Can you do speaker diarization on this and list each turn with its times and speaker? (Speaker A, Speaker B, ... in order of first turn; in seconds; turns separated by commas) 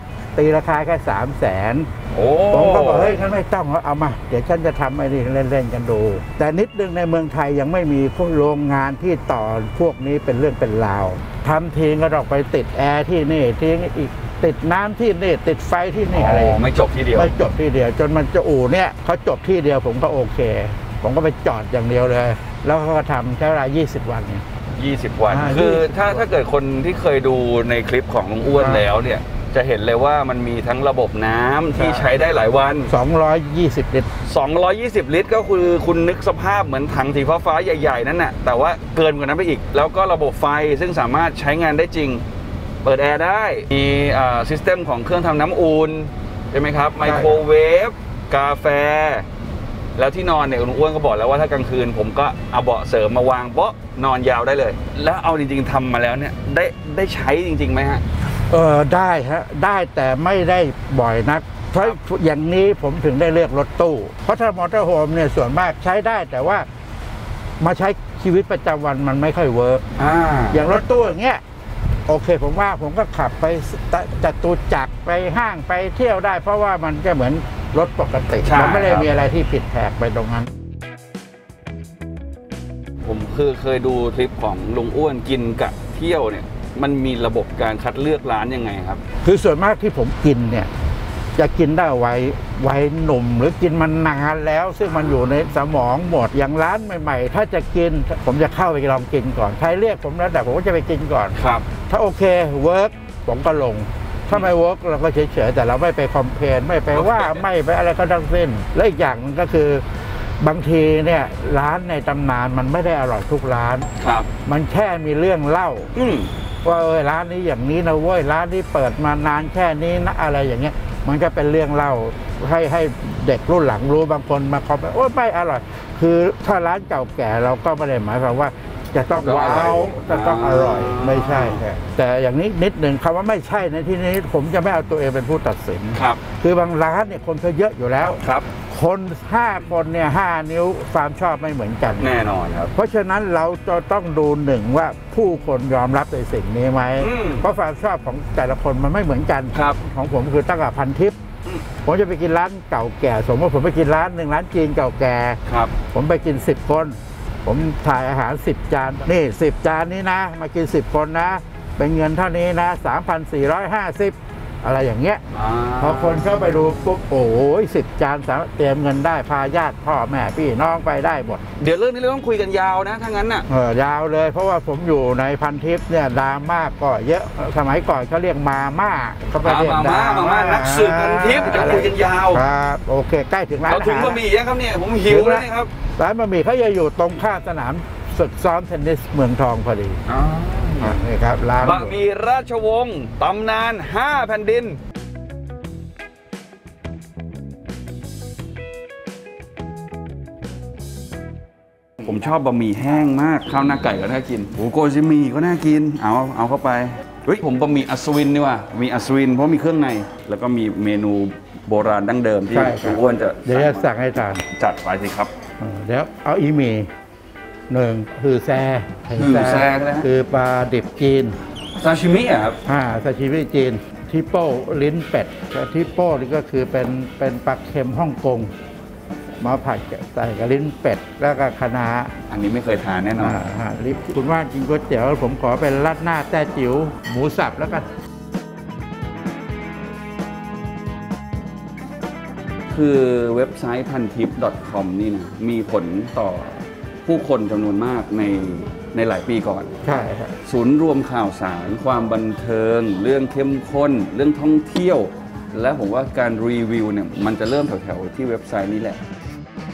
Speaker A: 0.4-1.9, Speaker B: 2.1-3.2, Speaker A: 2.5-24.4, Speaker B: 16.1-17.4, Speaker B: 24.8-32.9, Speaker A: 25.3-26.2, Speaker A: 28.6-28.8, Speaker A: 31.8-32.0, Speaker A: 32.9-34.1, Speaker B: 34.2-42.2, Speaker B: 42.8-49.3, Speaker A: 47.0-47.4, Speaker B: 50.0-58.0, Speaker A: 58.5-66.7, Speaker A: 67.6-69.9, Speaker B: 70.0-70.7, Speaker A: 70.5-71.4, Speaker A: 72.1-80.5, Speaker B: 78.4-79.1, Speaker B: 83.0-89.0, Speaker A: 89.2-90.7, Speaker A: 91.3-113.9, Speaker B: 101.3-101.7, Speaker B: 106.9-107.4, Speaker B: 114.0-114.3, Speaker A: 114.5-115.9, Speaker B: 116.0-116.3, Speaker A: 116.6-142.2, Speaker B: 129.1-131.6, Speaker B: 135.9-136.2, Speaker B: 138.2-138.5, Speaker B: 142.0-142.7, Speaker A: 142.7-151.2, Speaker B: 147.0-147.4, Speaker B: 149.5-149.8, Speaker A: 151.8-165.2, Speaker B: 155.5-155.8, Speaker B: 165.3-166.9, Speaker A: 165.8-171.4, Speaker B: 171.6-173.5, Speaker A: 173.5-184.2, Speaker B: 179.4-182.4, Speaker B: 183.7-185.7, Speaker A: 185.1-185.5, Speaker A: 186.0-190.0, Speaker B: 190.1-191.0, Speaker A: 190.8-191.9, Speaker B: 191.6-194.8, Speaker B: 202.0-213.9, Speaker A: 212.5-214.4, Speaker B: 214.5-215.3, Speaker A: 215.6-216.9, Speaker A: 217.7-221.4, Speaker B: 219.2-220.1, Speaker B: 221.7-222.6, Speaker A: 222.7-228.5, Speaker A: 229.4-232.1, Speaker B: 232.3-233.5, Speaker A: 233.2-237.9, Speaker B: 242.7-249.7, Speaker A: 249.8-250.4, Speaker B: 250.4-259.0